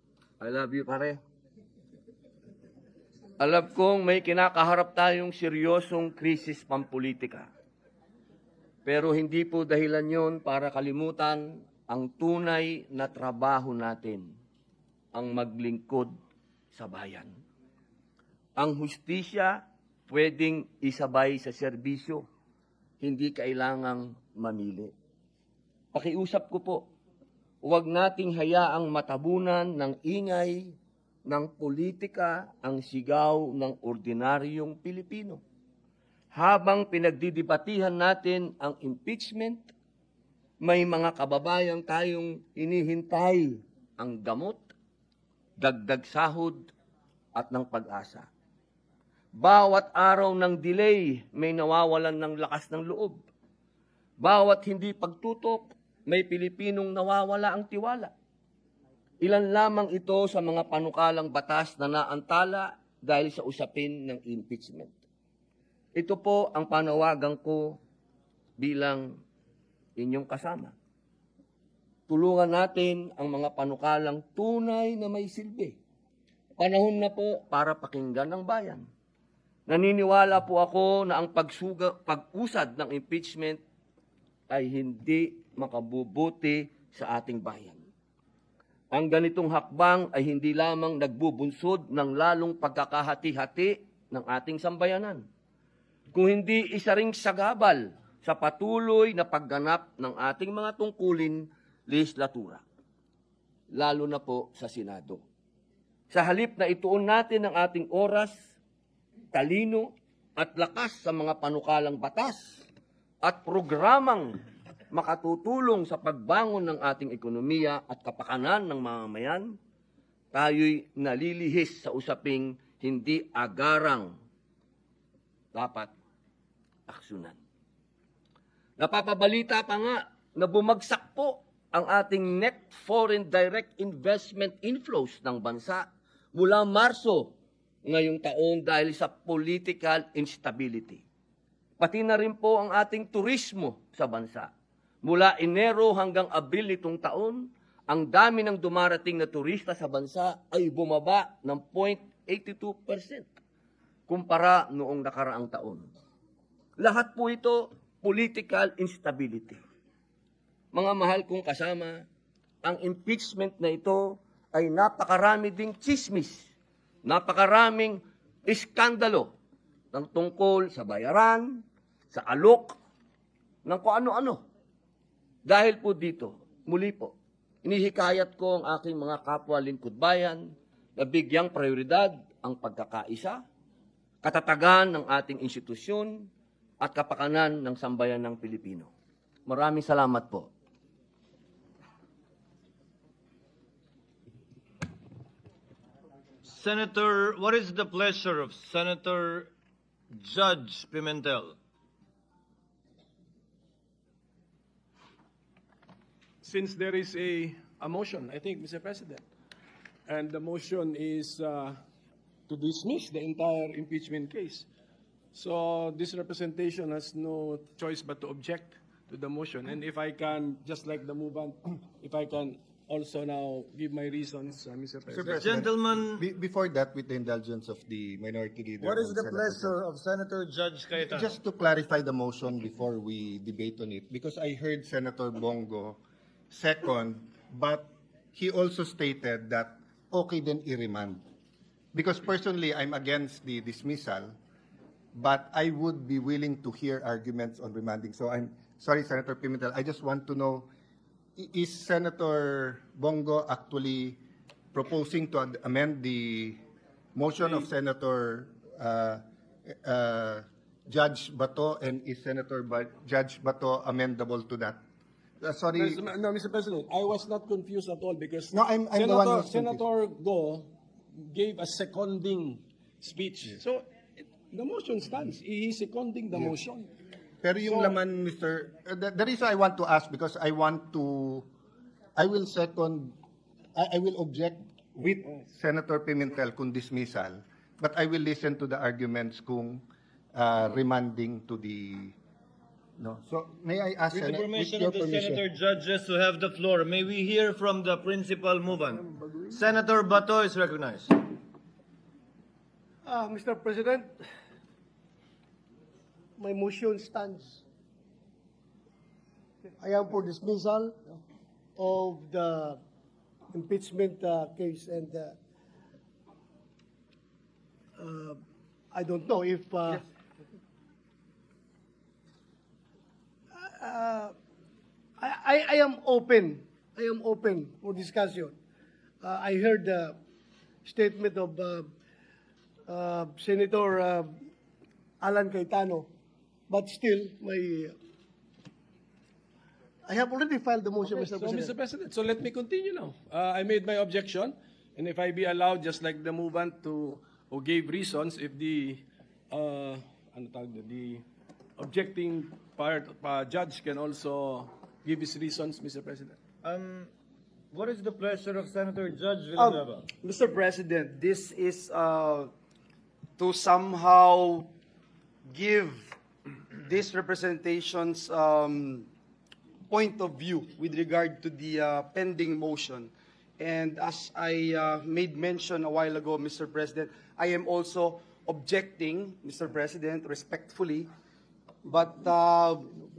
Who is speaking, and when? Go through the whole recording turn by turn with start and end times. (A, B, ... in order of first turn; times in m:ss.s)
0:00.4-0:01.2 A
0:03.4-0:07.5 A
0:08.9-0:14.3 A
0:15.2-0:16.1 A
0:16.7-0:17.3 A
0:18.6-0:22.2 A
0:23.0-0:24.9 A
0:25.9-0:26.8 A
0:27.6-0:30.8 A
0:31.3-0:35.4 A
0:36.3-0:39.7 A
0:40.6-0:44.7 A
0:45.6-0:46.7 A
0:47.4-0:48.3 A
0:49.4-0:53.2 A
0:54.2-0:58.1 A
0:59.2-1:05.0 A
1:06.0-1:07.8 A
1:08.6-1:09.1 A
1:10.0-1:10.8 A
1:12.1-1:15.8 A
1:16.6-1:18.8 A
1:19.7-1:23.6 A
1:24.5-1:27.8 A
1:28.9-1:35.2 A
1:36.1-1:42.6 A
1:43.7-1:45.2 A
1:46.1-1:48.5 A
1:49.3-1:52.7 A
1:53.2-1:54.4 A
1:54.9-1:59.5 A
2:00.3-2:04.1 A
2:05.6-2:06.0 A
2:06.9-2:07.4 A
2:08.8-2:17.3 A
2:17.9-2:21.0 A
2:21.8-2:24.5 A
2:25.0-2:33.3 A
2:34.1-2:35.9 A
2:36.8-2:39.6 A
2:40.7-2:42.0 A
2:42.6-2:46.5 A
2:47.1-2:49.3 A
2:49.9-2:52.8 A
2:53.7-2:54.4 A
2:55.5-2:57.1 A
2:57.6-3:03.4 A
3:04.2-3:06.3 A
3:06.8-3:08.9 A
3:09.5-3:10.5 A
3:16.4-3:19.5 B
3:20.1-3:21.6 B
3:26.4-3:29.2 C
3:30.1-3:31.8 C
3:32.5-3:34.7 C
3:35.3-3:45.5 C
3:45.1-3:49.8 D
3:45.2-3:46.2 B
3:48.8-3:51.3 B
3:51.0-3:56.0 D
3:56.5-4:01.2 D
4:01.9-4:04.4 D
4:05.1-4:10.7 D
4:11.4-4:14.2 D
4:14.7-4:16.6 D
4:17.2-4:24.8 D
4:25.4-4:26.0 D
4:25.7-4:36.9 C
4:28.5-4:29.8 D
4:37.4-4:41.5 D
4:37.7-4:38.0 C
4:42.2-4:43.2 D
4:43.8-4:52.2 D
4:53.0-4:55.4 D
4:54.1-5:01.2 B
5:03.0-5:04.1 E
5:06.4-5:07.6 E
5:09.8-5:11.2 E
5:11.8-5:12.8 E
5:13.5-5:15.4 E
5:18.0-5:18.4 E
5:18.9-5:20.1 E
5:23.6-5:24.3 E
5:25.2-5:28.6 E
5:29.2-5:30.2 E
5:30.8-5:31.9 E
5:32.9-5:34.3 E
5:35.2-5:36.1 E
5:36.7-5:38.0 E
5:40.1-5:41.7 E
5:41.0-5:51.2 C
5:51.8-5:56.4 C
5:56.6-5:57.1 B
5:57.7-6:00.1 B
5:59.6-6:02.5 F
6:03.4-6:04.7 F
6:05.5-6:06.2 F
6:06.8-6:09.1 F
6:09.9-6:21.1 F
6:21.8-6:23.1 F